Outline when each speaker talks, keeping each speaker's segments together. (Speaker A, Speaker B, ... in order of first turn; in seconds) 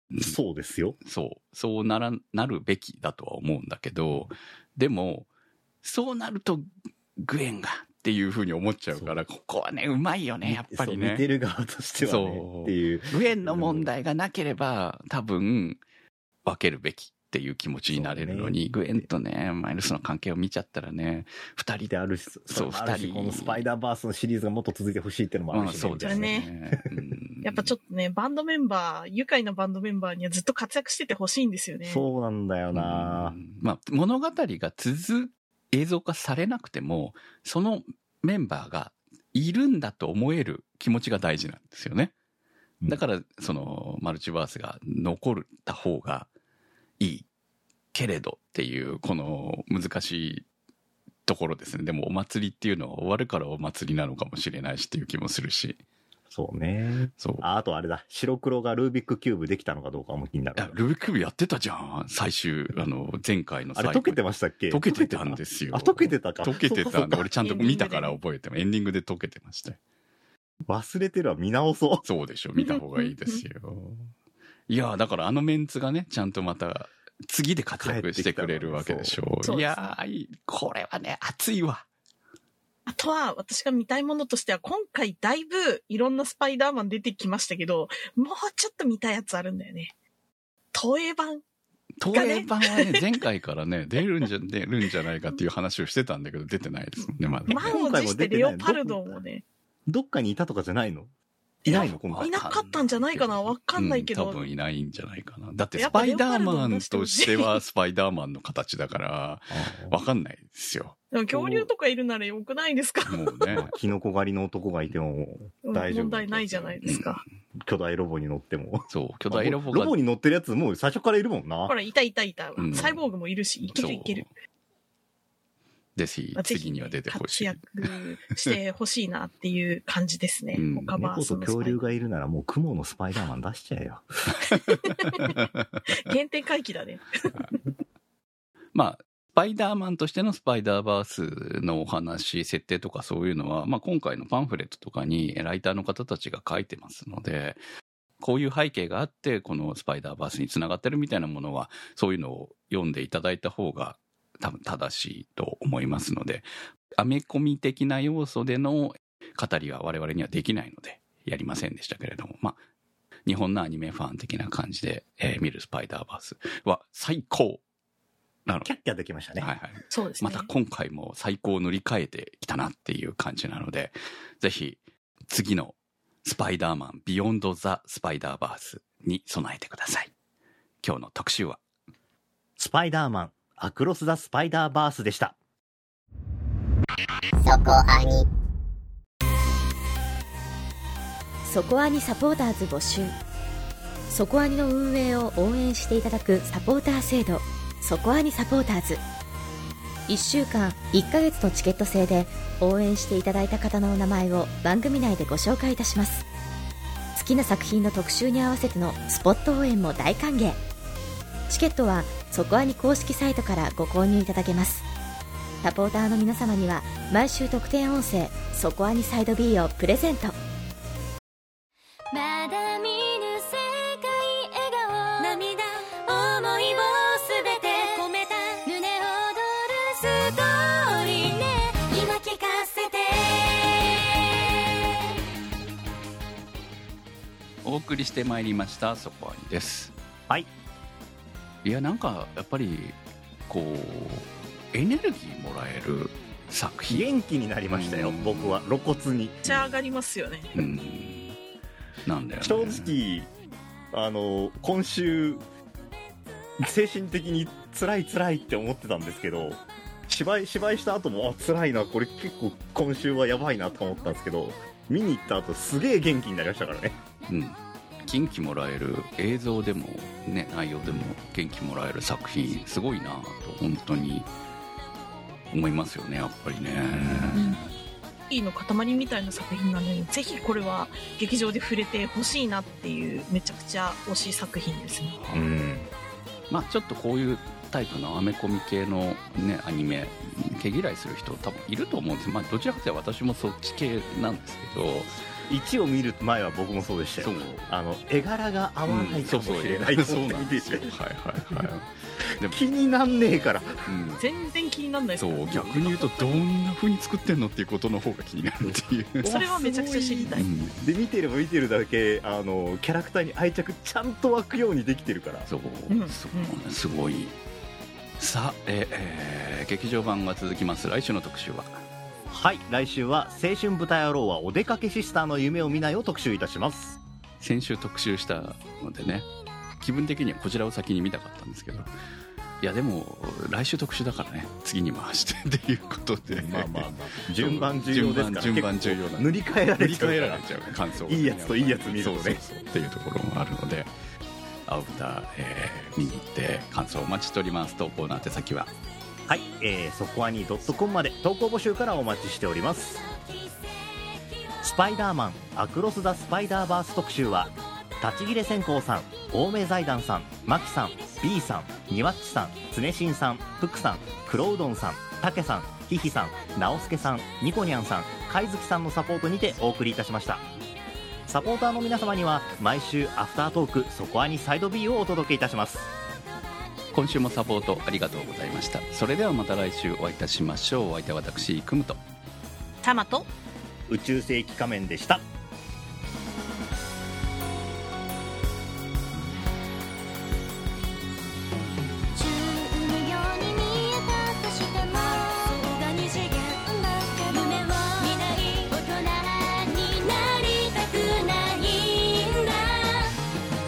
Speaker A: 0.2-1.0, 8.9-9.2, 10.4-13.9, 17.9-19.0, 21.9-26.8, 31.9-33.4, 56.3-60.8, 63.8-67.3, 70.7-72.0, 77.8-79.2, 97.5-99.2, 99.9-101.1, 101.7-102.4, 109.5-110.0, 111.3-111.7, 113.5-116.8, 117.6-121.8, 131.0-134.3, 168.6-169.5, 182.6-185.3, 246.9-249.7, 252.4-253.3, 253.9-255.4, 256.6-267.0, 276.9-277.4, 285.3-285.9, 295.5-300.9, 302.4-303.8, 309.2-315.5, 322.3-327.0, 336.3-342.4, 349.3-353.1, 354.6-370.5, 371.3-375.9, 383.9-385.2
Speaker B: 1.0-5.3, 5.8-11.3, 12.0-15.8, 16.4-21.9, 22.5-23.6, 25.5-27.8, 32.7-42.1, 42.9-46.3, 47.0-47.3, 47.9-50.5, 51.3-55.8, 57.2-57.4, 60.6-69.8, 72.0-74.1, 74.7-81.9, 92.0-97.8, 101.7-111.0, 113.1-113.7, 116.8-117.2, 118.9-120.0, 122.6-123.0, 123.7-124.3, 126.0-128.5, 130.6-130.9, 134.4-135.8, 138.7-147.6, 148.2-162.6, 163.3-167.6, 169.4-180.1, 180.8-181.6, 237.6-239.9, 241.6-247.1, 247.7-248.7, 250.6-251.4, 252.1-252.9, 267.3-274.3, 275.5-277.6, 285.2-285.4, 286.5-295.2, 297.2-297.7, 298.9-302.6, 303.9-304.2, 305.2-309.5, 310.3-310.8, 315.5-317.4, 318.2-321.8, 327.4-329.3, 329.8-331.9, 332.6-343.9, 344.7-348.7, 376.9-382.0
Speaker C: 26.0-26.5, 27.4-32.0, 67.4-68.2, 72.6-73.4, 79.4-79.9, 82.9-89.9, 90.7-91.4, 92.1-93.2, 97.0-99.4, 101.6-104.4, 105.8-107.6, 111.1-113.7, 115.7-117.2, 121.7-124.3, 126.4-131.8, 134.5-135.4, 135.9-137.6, 169.9-170.5, 249.4-250.6, 277.3-277.6, 278.3-285.2, 304.2-306.4, 309.2-310.5, 315.9-316.6, 382.8-383.3
Speaker D: 187.5-188.2, 191.5-193.1, 194.1-199.0, 200.1-206.3, 207.2-210.6, 211.5-214.9, 215.6-220.4
Speaker E: 222.1-234.8, 392.1-403.2